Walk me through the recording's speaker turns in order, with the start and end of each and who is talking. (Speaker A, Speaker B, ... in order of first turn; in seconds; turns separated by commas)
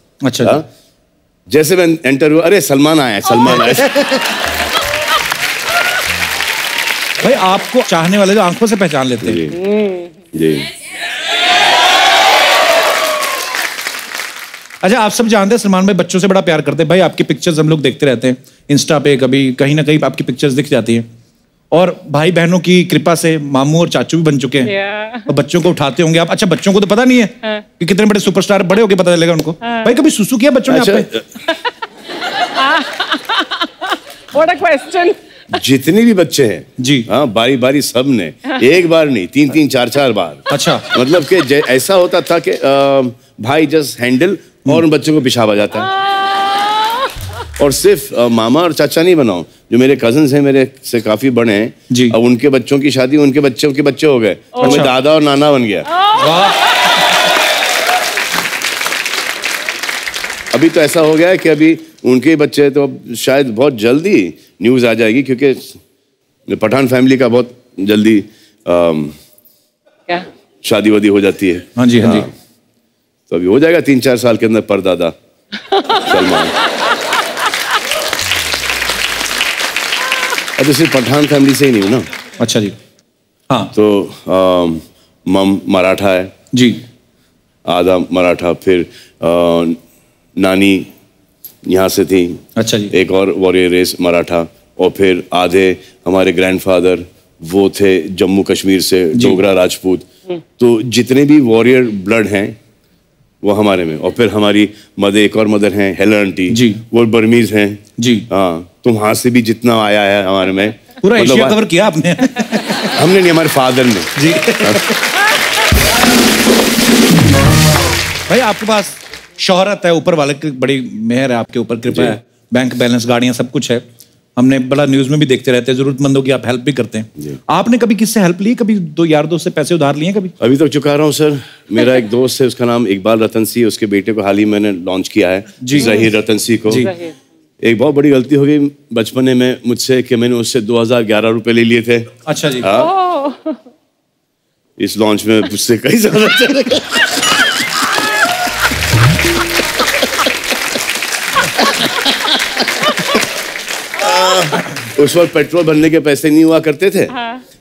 Speaker A: 0.2-0.6, Speaker B: 0.4-0.7, Speaker B: 1.5-4.0, Speaker A: 7.2-9.4, Speaker B: 9.2-9.6, Speaker C: 9.7-10.1, Speaker B: 10.3-10.7, Speaker A: 14.8-21.0, Speaker A: 21.7-24.7, Speaker C: 24.7-25.3, Speaker A: 25.3-31.1, Speaker B: 30.7-31.4, Speaker C: 32.5-35.2, Speaker B: 35.5-45.9, Speaker A: 36.8-37.1, Speaker A: 40.5-40.9, Speaker B: 47.6-55.9, Speaker A: 51.9-52.1, Speaker A: 54.6-54.9, Speaker C: 56.0-56.5, Speaker A: 56.1-56.6, Speaker B: 60.5-65.8, Speaker B: 66.5-69.2, Speaker B: 70.6-72.3, Speaker A: 71.8-72.3, Speaker B: 73.3-75.1, Speaker B: 75.8-76.5, Speaker B: 80.6-82.1, Speaker A: 82.4-82.7, Speaker B: 83.7-86.3, Speaker A: 86.5-86.8, Speaker B: 87.7-89.8, Speaker B: 90.4-90.9, Speaker B: 91.6-102.5, Speaker A: 92.6-92.9, Speaker A: 99.1-99.4, Speaker B: 103.4-111.6, Speaker A: 106.5-106.8, Speaker A: 108.0-108.3, Speaker A: 111.0-113.0, Speaker B: 112.9-114.9, Speaker A: 114.2-115.0, Speaker A: 118.3-123.8, Speaker B: 121.9-122.2, Speaker A: 124.3-130.3, Speaker B: 130.4-136.9, Speaker A: 135.6-136.1, Speaker A: 136.7-136.9, Speaker C: 136.8-137.1, Speaker B: 137.6-142.9, Speaker A: 142.2-142.7, Speaker C: 142.8-143.6, Speaker B: 144.8-147.5, Speaker B: 153.9-157.2